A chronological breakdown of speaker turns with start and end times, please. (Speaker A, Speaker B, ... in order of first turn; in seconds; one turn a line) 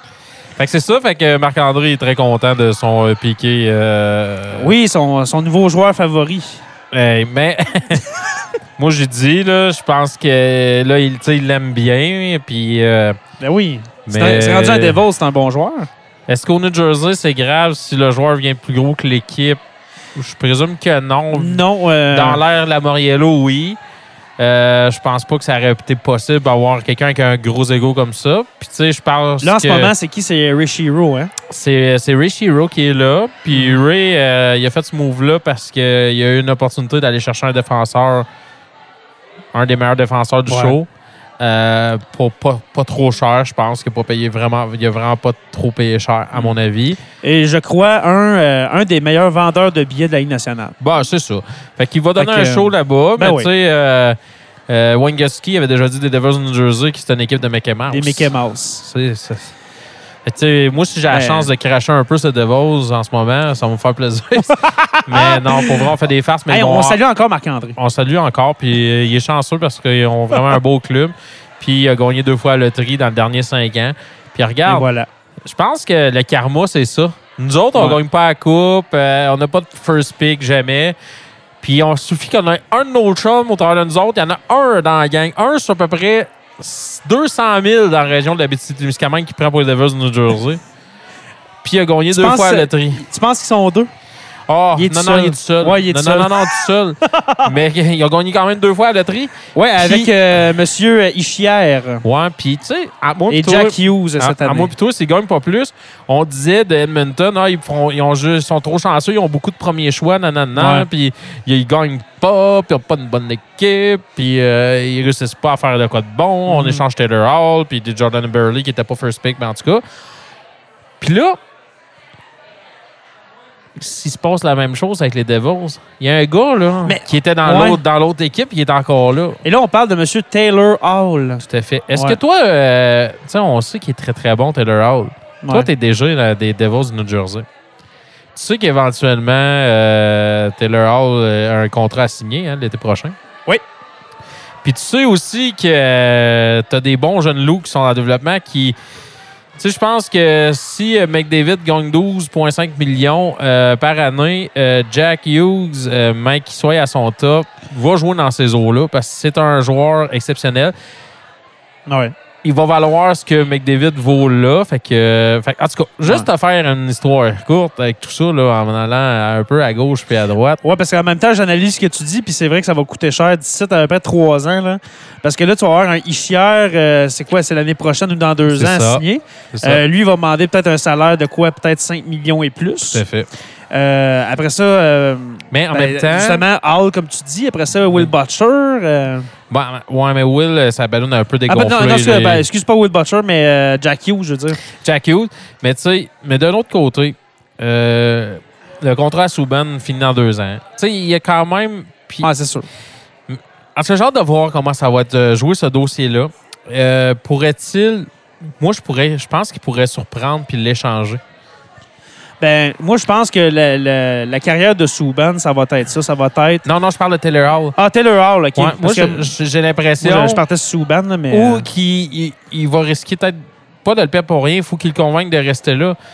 Speaker A: 0.6-4.7
Speaker B: 4.5-6.6
Speaker A: 6.9-8.0
Speaker A: 8.8-13.2
Speaker B: 13.4-15.9
Speaker A: 14.1-15.0
Speaker A: 16.3-19.6
Speaker A: 20.1-23.8
Speaker B: 21.3-22.4
Speaker A: 24.4-29.9
Speaker B: 29.4-31.3
Speaker A: 31.5-38.3
Speaker A: 39.5-40.9
Speaker B: 40.5-40.7
Speaker A: 41.4-47.0
Speaker B: 47.2-50.8
Speaker A: 50.8-59.5
Speaker B: 52.2-53.5
Speaker B: 57.9-58.8
Speaker A: 60.2-67.0
Speaker B: 61.1-61.5
Speaker B: 64.6-65.9
Speaker B: 66.5-67.8
Speaker A: 67.8-74.9
Speaker B: 74.7-75.1
Speaker A: 75.4-81.0
Speaker B: 77.7-78.0
Speaker A: 81.6-90.6
Speaker A: 91.6-93.0
Speaker B: 92.1-93.9
Speaker A: 94.5-100.1
Speaker B: 94.8-96.6
Speaker B: 97.1-97.5
Speaker B: 99.5-102.0
Speaker A: 102.0-119.8
Speaker B: 103.3-104.7
Speaker B: 110.5-110.8
Speaker B: 116.5-116.8
Speaker A: 121.0-121.4
Speaker A: 123.8-129.4
Speaker B: 126.8-127.8
Speaker B: 129.4-132.2
Speaker A: 131.4-137.4
Speaker B: 135.4-135.7
Speaker A: 138.3-143.2
Speaker A: 144.6-148.8
Speaker A: 149.6-160.7
Speaker B: 161.9-162.1
Speaker A: 162.4-170.6
Speaker B: 170.6-183.0
Speaker A: 178.5-179.8
Speaker A: 182.8-183.3
Speaker B: 183.7-189.3
Speaker A: 185.5-186.4
Speaker A: 189.5-192.4
Speaker B: 191.5-194.6
Speaker A: 194.8-202.3
Speaker B: 202.2-202.7
Speaker A: 203.3-208.1
Speaker A: 208.6-211.2
Speaker B: 212.4-216.6
Speaker A: 216.6-217.8
Speaker B: 217.8-219.2
Speaker A: 218.6-220.4
Speaker B: 220.0-221.7
Speaker A: 221.3-226.0